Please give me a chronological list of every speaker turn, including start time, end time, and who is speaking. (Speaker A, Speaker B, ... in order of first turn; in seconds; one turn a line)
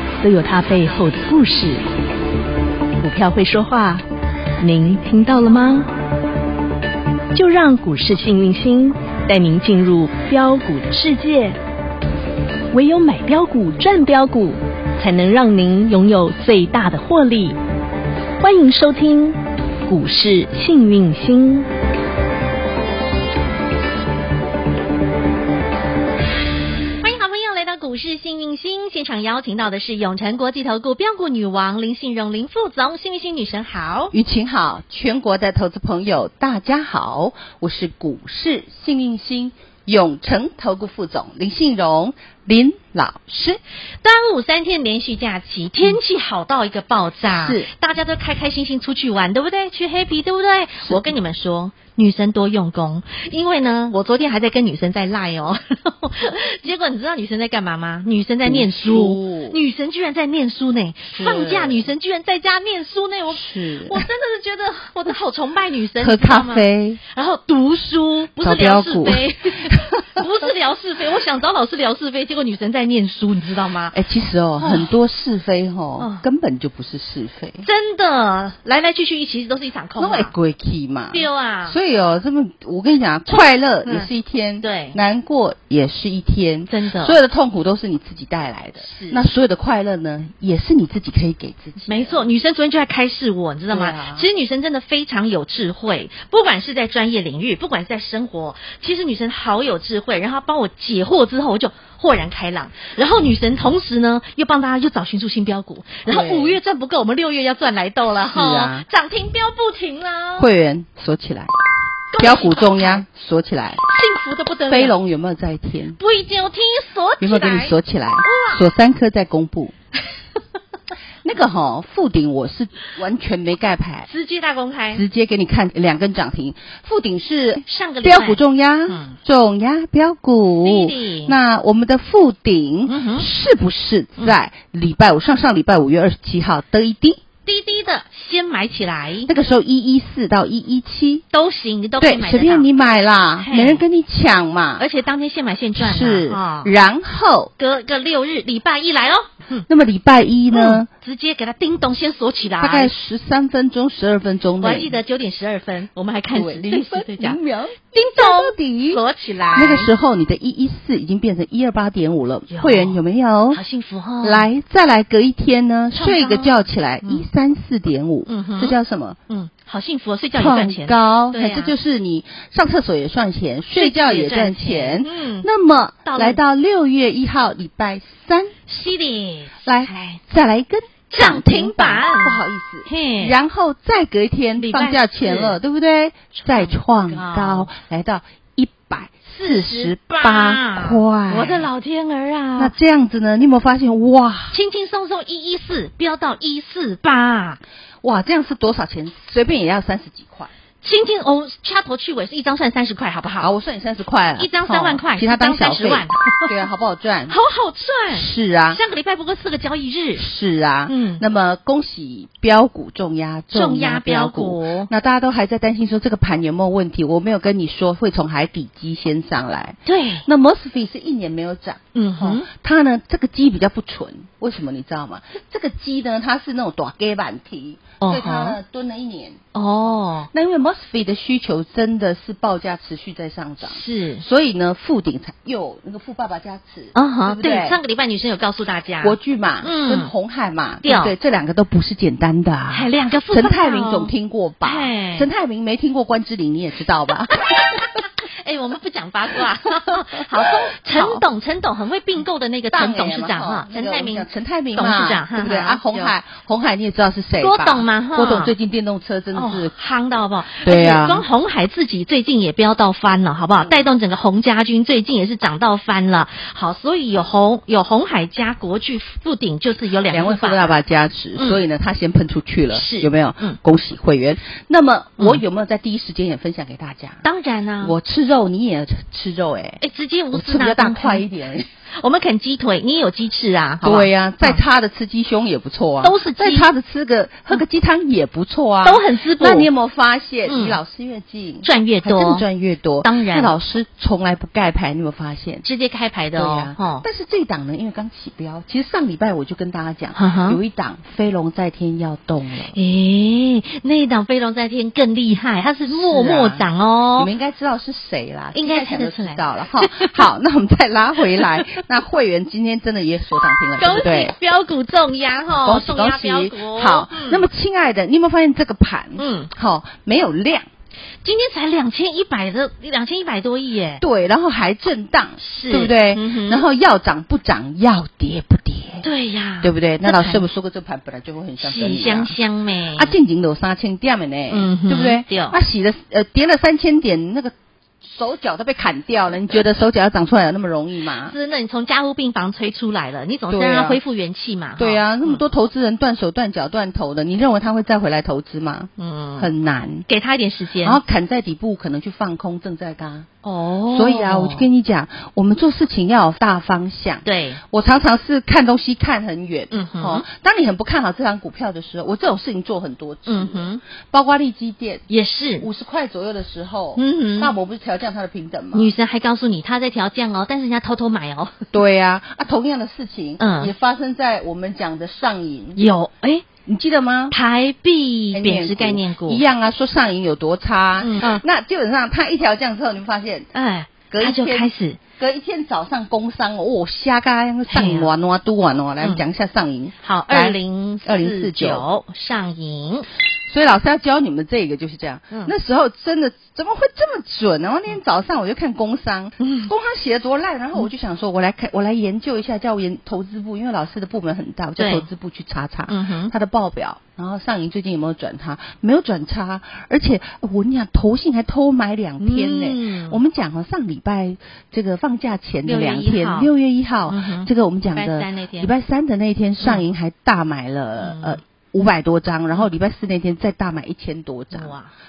Speaker A: 0.2-1.8
Speaker A: 3.0-4.0
Speaker A: 4.6-5.9
Speaker A: 7.3-11.6
Speaker A: 12.7-17.6
Speaker A: 18.4-21.7
Speaker B: 27.0-34.1
Speaker C: 34.1-43.6
Speaker B: 44.0-74.0
Speaker C: 47.3-47.7
Speaker C: 50.8-51.1
Speaker C: 58.5-59.6
Speaker C: 61.1-61.9
Speaker C: 63.3-64.0
Speaker C: 66.0-67.0
Speaker C: 68.4-69.8
Speaker C: 73.9-77.6
Speaker B: 74.6-74.9
Speaker B: 76.0-76.2
Speaker B: 77.6-80.3
Speaker C: 80.0-92.2
Speaker B: 81.1-81.8
Speaker B: 83.3-84.1
Speaker B: 84.6-85.0
Speaker B: 86.7-87.2
Speaker B: 88.8-89.2
Speaker B: 91.9-110.5
Speaker C: 93.7-94.2
Speaker C: 106.0-106.6
Speaker C: 108.2-108.9
Speaker C: 110.4-111.5
Speaker B: 112.1-113.0
Speaker C: 112.2-113.8
Speaker B: 113.8-114.9
Speaker C: 114.7-116.0
Speaker B: 116.0-118.6
Speaker C: 117.2-119.7
Speaker C: 121.2-124.1
Speaker B: 124.1-125.0
Speaker C: 124.9-137.2
Speaker B: 127.7-129.2
Speaker B: 130.6-131.3
Speaker B: 132.9-133.3
Speaker B: 137.5-139.3
Speaker C: 139.2-141.2
Speaker B: 141.3-142.7
Speaker C: 142.0-144.8
Speaker B: 143.4-143.8
Speaker B: 144.8-146.7
Speaker C: 145.8-147.5
Speaker B: 147.6-149.7
Speaker C: 149.7-150.9
Speaker B: 150.5-152.9
Speaker C: 152.6-155.0
Speaker B: 154.6-159.9
Speaker C: 156.3-159.0
Speaker C: 159.5-163.6
Speaker B: 162.5-163.0
Speaker B: 163.5-164.5
Speaker C: 164.2-169.2
Speaker B: 165.9-167.3
Speaker B: 168.3-168.8
Speaker B: 169.3-171.7
Speaker C: 170.3-178.5
Speaker B: 173.7-175.5
Speaker B: 176.1-176.4
Speaker B: 178.7-180.2
Speaker C: 179.7-191.7
Speaker B: 181.1-183.4
Speaker B: 184.6-185.6
Speaker B: 186.3-187.7
Speaker B: 189.3-192.7
Speaker C: 192.6-194.6
Speaker B: 194.5-197.6
Speaker C: 198.0-200.5
Speaker B: 200.8-203.5
Speaker C: 203.4-207.4
Speaker B: 204.4-206.6
Speaker B: 207.3-210.2
Speaker C: 208.1-208.8
Speaker C: 210.2-229.4
Speaker B: 210.9-211.2
Speaker B: 213.5-214.9
Speaker B: 219.9-220.2
Speaker B: 221.9-222.5
Speaker B: 228.0-228.6
Speaker B: 229.5-230.3
Speaker C: 230.3-237.8
Speaker B: 233.6-234.2
Speaker B: 236.9-240.1
Speaker C: 239.0-247.8
Speaker B: 240.8-241.2
Speaker B: 242.7-244.1
Speaker B: 244.6-245.3
Speaker B: 247.8-256.1
Speaker C: 250.3-251.2
Speaker C: 252.7-259.7
Speaker B: 257.4-258.5
Speaker B: 259.4-270.8
Speaker C: 260.6-261.2
Speaker C: 270.1-277.2
Speaker B: 272.7-273.6
Speaker B: 277.2-277.9
Speaker C: 277.8-279.8
Speaker B: 279.8-281.2
Speaker C: 280.3-281.7
Speaker B: 282.0-284.6
Speaker C: 283.8-295.6
Speaker B: 286.0-286.7
Speaker B: 288.9-289.7
Speaker B: 290.5-290.8
Speaker B: 291.6-292.4
Speaker B: 293.0-293.5
Speaker B: 295.6-297.1
Speaker C: 296.4-302.8
Speaker B: 300.1-300.6
Speaker B: 302.7-307.3
Speaker C: 305.9-314.3
Speaker B: 308.5-310.2
Speaker B: 311.3-311.8
Speaker B: 313.8-317.4
Speaker C: 315.5-320.7
Speaker B: 319.2-319.5
Speaker B: 321.2-324.0
Speaker C: 324.0-329.1
Speaker B: 325.4-326.6
Speaker B: 329.0-330.4
Speaker C: 329.6-332.4
Speaker B: 331.6-333.1
Speaker C: 332.9-337.5
Speaker B: 334.5-335.6
Speaker C: 338.0-341.3
Speaker B: 341.2-345.4
Speaker C: 343.5-344.0
Speaker C: 344.8-350.1
Speaker B: 349.0-349.5
Speaker B: 350.1-351.0
Speaker C: 350.8-353.3
Speaker B: 353.4-354.7
Speaker C: 353.9-365.1
Speaker B: 357.2-357.6
Speaker B: 359.7-360.2
Speaker B: 363.3-363.8
Speaker B: 365.1-365.7
Speaker C: 365.6-368.9
Speaker B: 367.0-367.5
Speaker B: 368.7-371.6
Speaker C: 371.7-375.8
Speaker B: 373.4-373.7
Speaker B: 375.8-376.4
Speaker C: 376.7-377.4
Speaker B: 377.3-379.4
Speaker C: 378.3-383.5
Speaker B: 381.0-381.4
Speaker B: 383.5-385.0
Speaker C: 384.1-391.9
Speaker B: 387.7-388.1
Speaker B: 390.0-393.1
Speaker C: 393.5-424.7
Speaker B: 399.4-399.7
Speaker B: 404.8-405.1
Speaker B: 405.9-406.3
Speaker B: 412.2-413.2
Speaker B: 415.6-416.5
Speaker B: 417.1-418.7
Speaker B: 421.0-421.4
Speaker B: 424.5-424.9